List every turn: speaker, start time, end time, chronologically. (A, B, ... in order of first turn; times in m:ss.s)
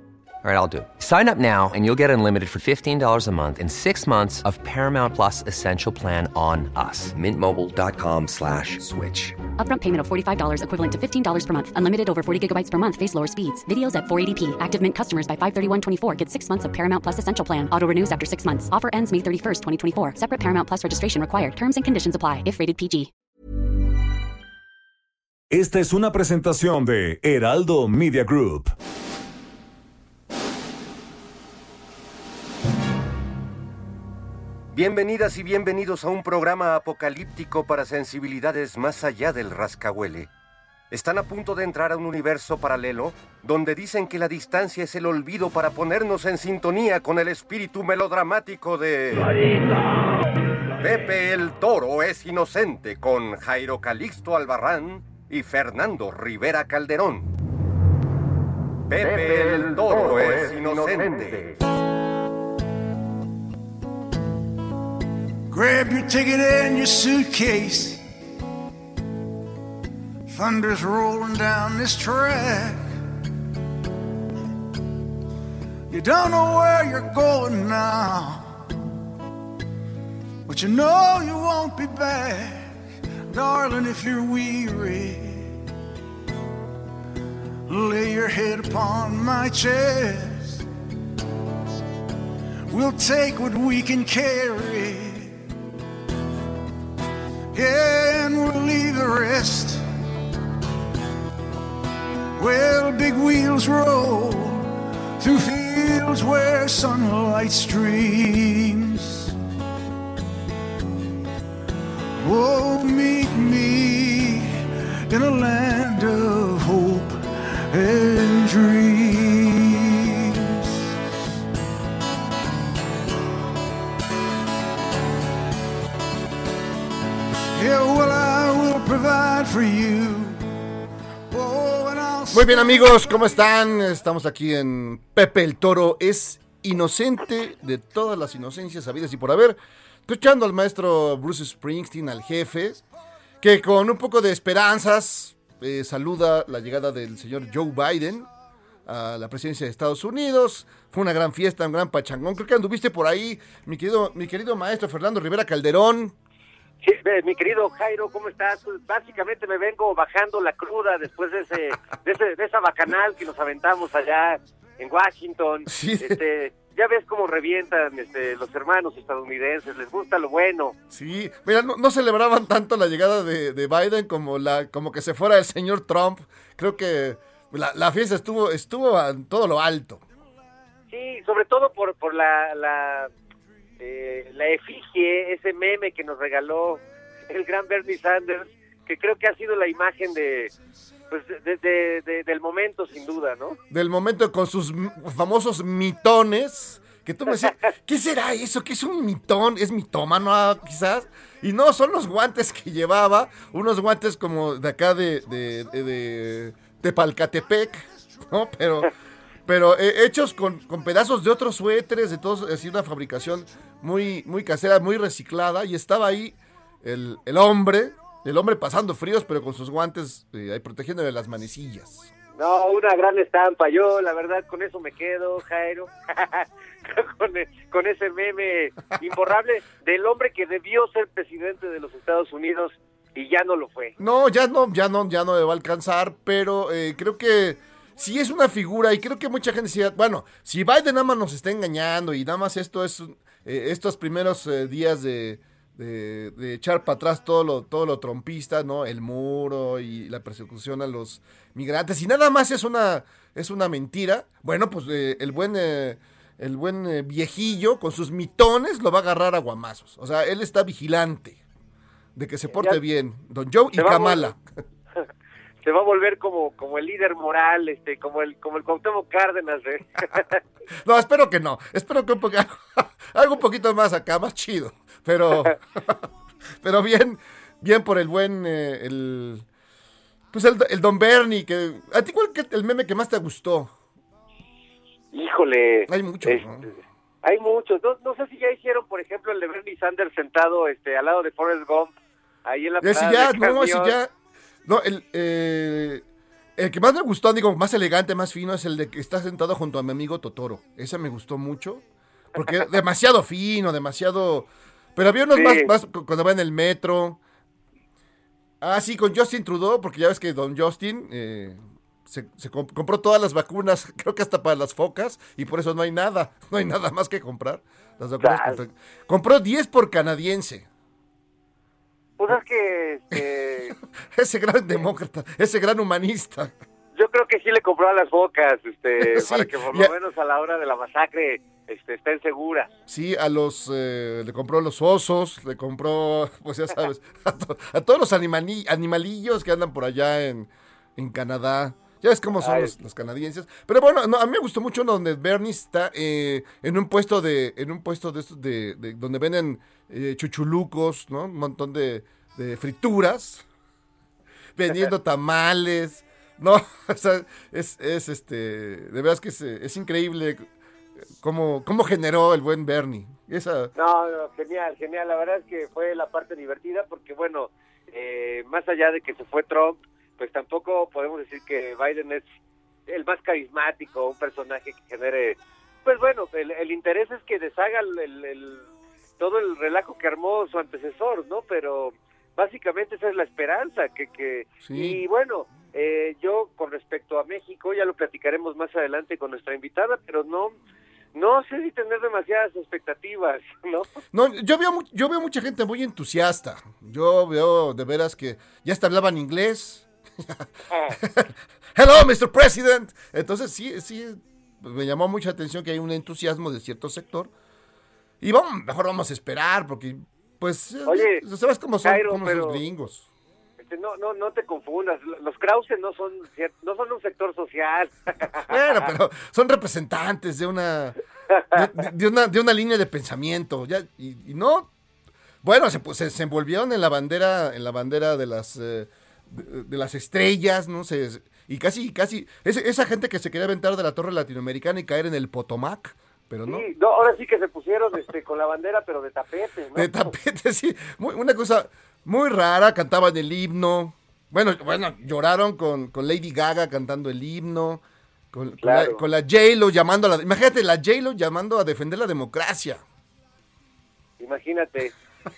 0:00.4-0:09.4 A
0:09.6-0:23.1 B
0:25.5-0:28.7 C
0:34.7-0:40.3 D
0:40.9-0:49.4 D
0:50.8-0:57.3 D
0:58.9-1:01.5 D
1:05.5-1:08.0 E
1:10.3-1:12.8 E
1:15.9-1:18.6 E
1:20.4-1:22.8 E
1:23.3-1:25.5 E
1:27.7-1:30.6 E
1:32.7-1:35.4 E
1:37.5-1:39.8 E
1:42.4-1:49.3 E
1:52.2-2:00.9 E
2:07.5-2:10.5 E
2:11.3-2:13.1 E
2:12.3-2:22.8 F
2:23.4-2:28.3 F
2:28.8-2:36.1 F
2:36.8-2:50.7 G
2:45.7-2:46.2 F
2:50.9-3:00.0 F
3:00.9-3:03.1 G
3:03.8-3:10.5 G
3:11.1-3:13.6 G
3:13.7-3:28.9 F
3:17.3-3:17.6 G
3:29.4-3:42.1 F
3:42.4-3:53.9 G
3:54.0-4:21.4 F
4:22.1-4:24.4 F
4:22.5-4:22.8 G
4:23.8-4:24.3 G
4:25.6-4:30.4 G
4:30.7-4:36.0 F
4:36.6-4:39.4 F
4:40.3-4:43.7 F
4:45.1-4:46.4 G
4:45.9-4:46.7 F
4:47.2-4:51.9 G
4:52.4-4:54.0 G
4:52.8-4:54.1 F
4:54.6-4:56.0 F
4:56.6-5:01.8 F
5:02.3-5:07.2 F
5:05.3-5:05.7 G
5:08.6-5:20.7 F
5:18.2-5:18.6 G
5:22.2-5:23.7 G
5:23.7-5:26.5 F
5:26.9-5:32.7 G
5:29.0-5:29.9 F
5:32.9-5:53.4 F
5:42.4-5:42.7 G
5:54.6-6:00.5 F
6:01.1-6:03.7 F
6:03.8-6:12.2 G
6:12.9-6:18.7 G
6:19.2-6:30.5 G
6:24.6-6:25.0 F
6:31.1-6:33.9 G
6:34.1-6:47.3 F
6:40.7-6:41.0 G
6:48.2-6:53.1 F
6:50.9-6:51.2 G
6:51.8-6:52.6 G
6:53.6-6:58.9 G
6:58.5-7:01.0 F
7:01.3-7:01.6 G
7:01.5-7:04.7 F
7:05.4-7:16.7 F
7:16.4-7:20.1 G
7:19.7-7:32.8 F
7:28.6-7:29.0 G
7:34.2-7:34.9 G